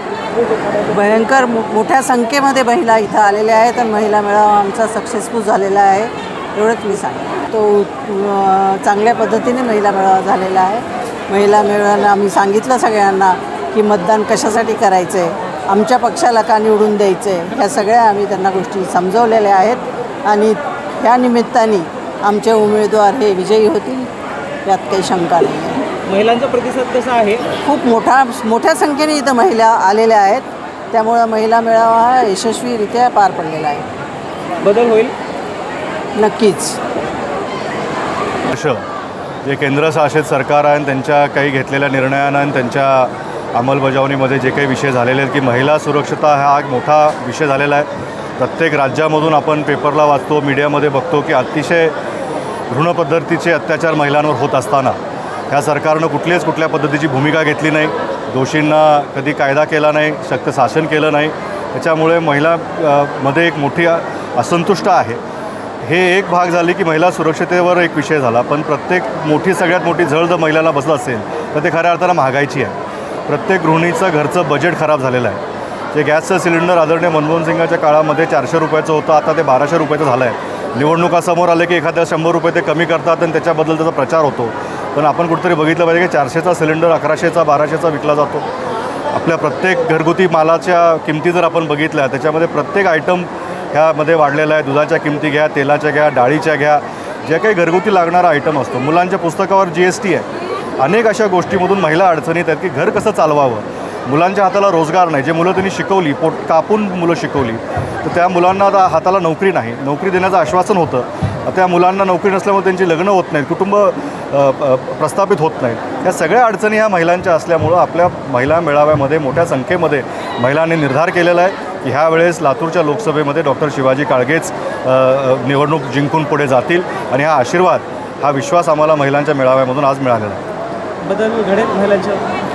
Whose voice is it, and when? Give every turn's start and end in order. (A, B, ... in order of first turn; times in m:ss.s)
0:00.8-0:24.1 A
0:24.6-0:25.9 A
0:26.0-0:27.4 B
0:27.6-0:33.9 A
0:34.6-0:35.1 B
0:36.2-0:36.8 A
0:38.5-0:38.8 C
0:39.4-0:47.9 C
0:48.4-0:51.9 C
0:52.7-0:55.0 C
0:55.5-1:05.2 C
1:05.8-1:15.4 C
1:15.9-1:28.4 C
1:29.1-1:40.2 C
1:40.8-2:10.4 C
2:11.0-2:12.4 B